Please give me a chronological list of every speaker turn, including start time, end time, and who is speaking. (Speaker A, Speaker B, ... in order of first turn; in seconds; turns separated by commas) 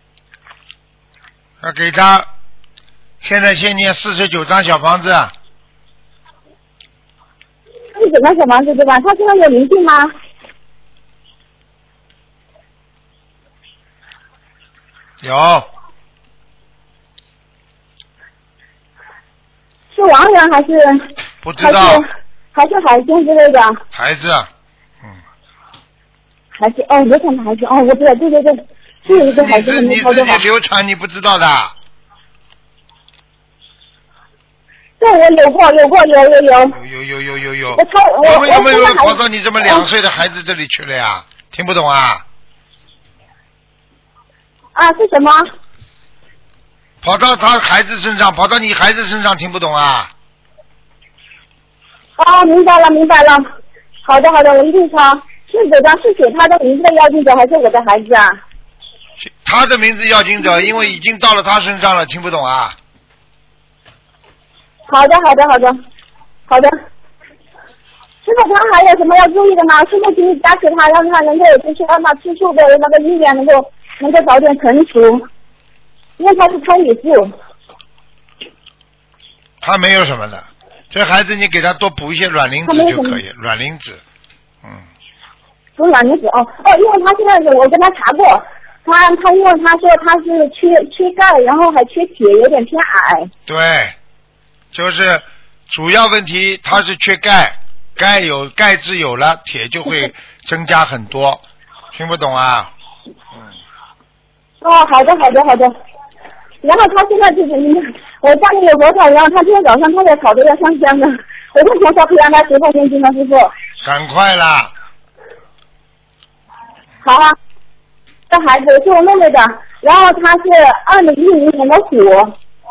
Speaker A: 1.6-2.3, Speaker A: 3.2-5.3, Speaker B: 7.9-10.1, Speaker A: 15.2-15.7, Speaker B: 19.9-21.1, Speaker A: 21.4-22.0, Speaker B: 21.6-23.8, Speaker A: 23.9-24.5, Speaker B: 26.5-30.4, Speaker A: 29.1-31.7, Speaker B: 35.0-36.8, Speaker A: 36.7-42.2, Speaker B: 37.7-39.8, Speaker B: 44.7-45.5, Speaker A: 47.0-50.1, Speaker B: 52.2-53.4, Speaker B: 54.0-58.4, Speaker A: 59.2-62.8, Speaker B: 64.9-65.8, Speaker B: 66.5-66.8, Speaker B: 68.2-75.3, Speaker B: 76.2-77.3, Speaker A: 79.6-84.0, Speaker B: 82.7-83.2, Speaker B: 85.8-93.3, Speaker A: 93.5-94.0, Speaker A: 94.7-102.7, Speaker B: 104.6-105.7, Speaker B: 106.6-113.5, Speaker A: 113.8-114.7, Speaker B: 117.0-117.3, Speaker B: 118.3-122.3